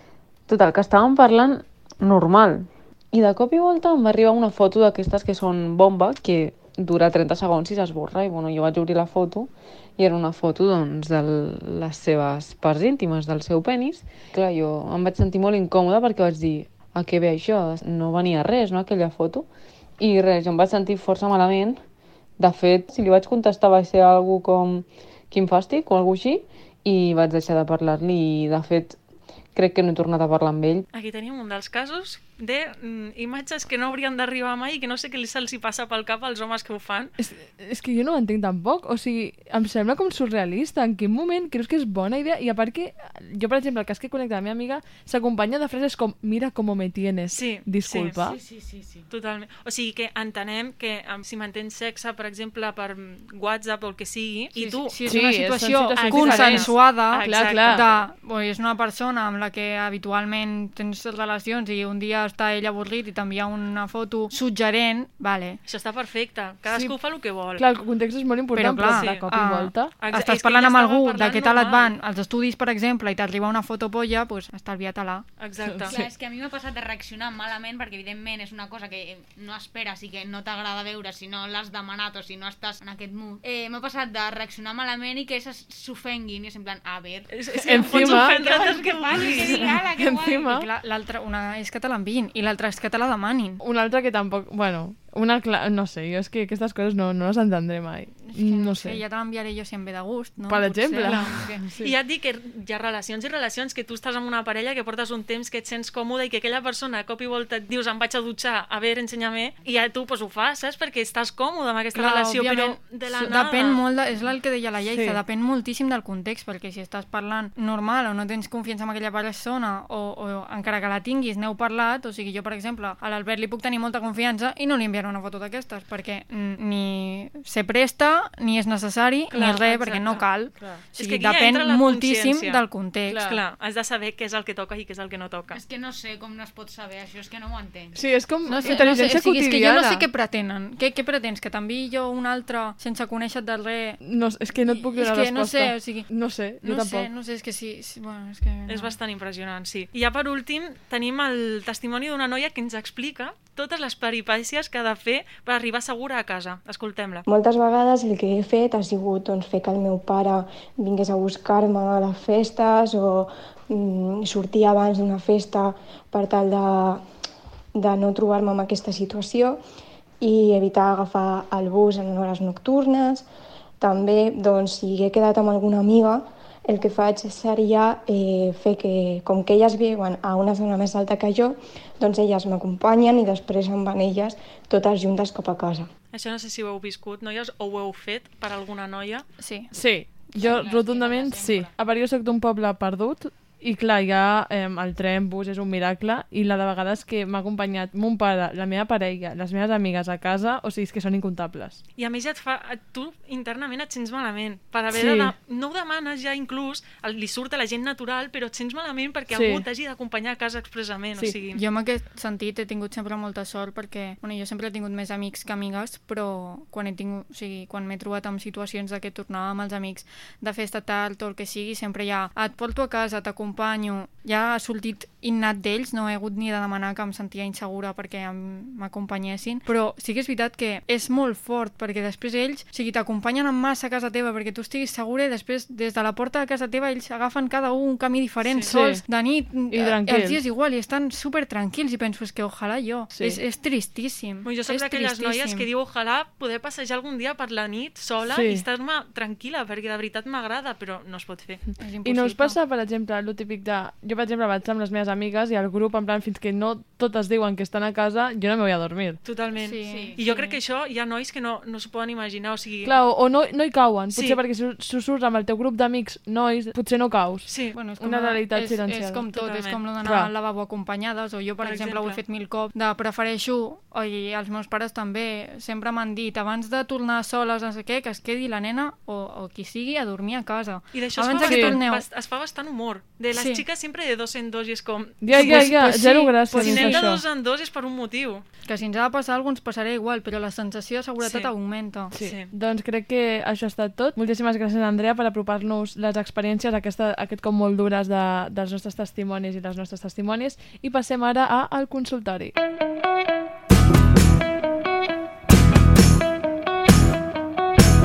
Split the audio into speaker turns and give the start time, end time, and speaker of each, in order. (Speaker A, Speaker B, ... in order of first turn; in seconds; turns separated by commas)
Speaker A: 0.5-19.5, Speaker A: 20.0-21.8, Speaker A: 22.4-29.0, Speaker A: 29.6-30.9, Speaker B: 30.9-37.1, Speaker C: 37.2-48.4, Speaker B: 47.3-48.2, Speaker D: 48.2-49.1, Speaker B: 49.1-55.0, Speaker E: 54.6-65.6, Speaker C: 55.1-57.9, Speaker B: 56.0-58.1, Speaker B: 65.7-67.7, Speaker C: 66.7-69.9, Speaker E: 68.5-75.3, Speaker B: 68.9-69.3, Speaker B: 70.0-72.0, Speaker B: 75.4-75.9, Speaker C: 75.7-76.1, Speaker D: 75.9-90.5, Speaker B: 87.3-89.7, Speaker C: 87.7-88.3, Speaker C: 89.2-90.7, Speaker E: 90.5-93.6, Speaker C: 93.6-99.0, Speaker E: 98.3-101.6, Speaker C: 100.5-101.9, Speaker B: 101.1-113.9, Speaker D: 101.2-101.5, Speaker E: 111.9-133.2, Speaker C: 114.9-115.2, Speaker B: 129.3-135.6, Speaker C: 133.1-133.4, Speaker D: 135.5-138.0, Speaker C: 137.9-140.1, Speaker E: 138.5-144.0, Speaker C: 144.0-147.1, Speaker E: 144.9-149.0, Speaker B: 148.7-157.2, Speaker F: 157.3-167.0, Speaker F: 167.8-169.6, Speaker F: 170.2-173.3, Speaker F: 173.8-185.9, Speaker B: 186.1-189.2, Speaker E: 189.4-189.7, Speaker C: 189.7-201.8, Speaker D: 190.4-191.7, Speaker B: 202.0-211.6, Speaker C: 204.9-205.3, Speaker C: 209.3-209.7, Speaker E: 211.5-245.7, Speaker B: 238.4-238.7, Speaker C: 238.7-239.1, Speaker C: 239.7-240.4, Speaker C: 243.2-243.4, Speaker B: 244.4-251.7, Speaker C: 248.3-248.7, Speaker E: 251.8-252.6, Speaker C: 252.0-259.2, Speaker B: 259.2-262.9, Speaker E: 259.6-260.4, Speaker D: 259.9-260.5, Speaker C: 262.8-269.2, Speaker B: 264.1-264.4, Speaker B: 267.5-267.8, Speaker E: 267.7-282.1, Speaker B: 269.3-269.9, Speaker C: 270.0-270.3, Speaker B: 271.6-272.2, Speaker B: 280.9-288.4, Speaker C: 281.4-281.8, Speaker E: 283.3-283.6, Speaker C: 285.2-287.2, Speaker E: 286.5-287.0, Speaker E: 288.6-292.1, Speaker B: 291.2-291.5, Speaker B: 292.1-292.5, Speaker C: 292.1-302.6